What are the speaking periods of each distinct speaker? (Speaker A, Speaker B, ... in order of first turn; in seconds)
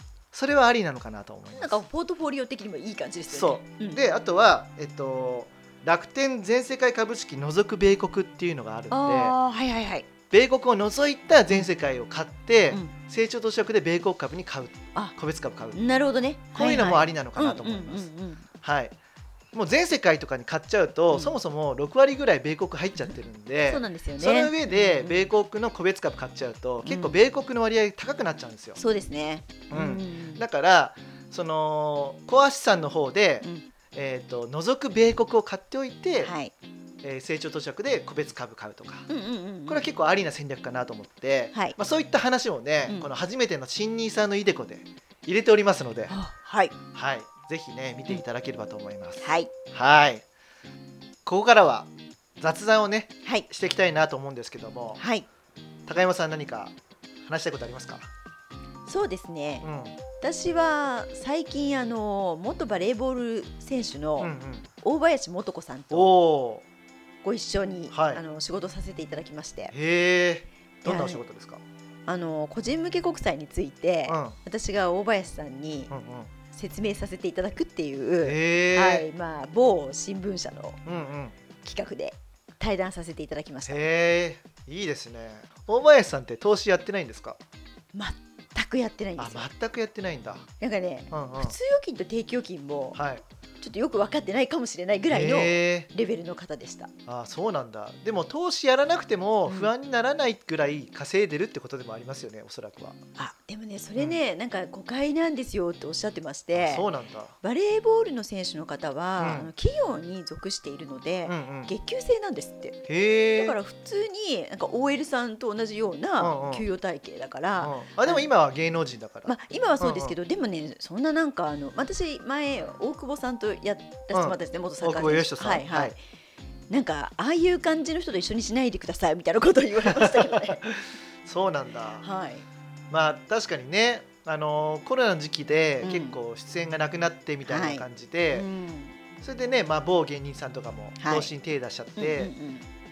Speaker A: 0.3-1.8, 3.3-9.3, 10.3-15.8, 16.5-18.1, 18.6-18.9, 19.5-28.8, 29.7-36.3, 37.0-39.1, 39.7-46.1, 46.9-50.2, 51.2-55.0, 55.9-56.8, 57.3-58.1, 59.6-60.0, 64.2-64.7, 65.9-66.7, 67.9-68.2, 69.7-71.6, 74.1-74.4, 75.9-76.3, 78.2-79.1, 80.8-81.3, 83.7-87.4, 89.2-90.5, 91.1-91.6, 93.0-93.2, 95.1-95.9, 97.1-103.0, 106.5-107.3, 109.2-109.5, 111.3-111.7, 112.9-113.6, 116.2-116.7, 117.6-120.2, 124.1-126.0, 129.9-132.1, 132.9-138.5, 139.2-142.3
Speaker B: 1.6-4.0, 8.9-10.1, 15.7-18.5, 23.7-25.3, 26.9-27.2, 28.8-30.4, 36.2-36.5, 39.1-39.8, 46.1-46.7, 49.2-49.5, 55.0-55.3, 58.9-59.7, 60.2-66.1, 67.2-69.7, 70.8-71.2, 72.1-75.9, 76.5-80.8, 81.6-83.8, 87.9-89.5, 90.6-93.0, 93.6-96.9, 103.2-106.9, 107.4-112.8, 113.4-118.3, 119.3-126.0, 126.7-130.7, 132.0-132.5, 135.8-136.2, 137.5-139.0, 141.0-141.3, 142.0-142.7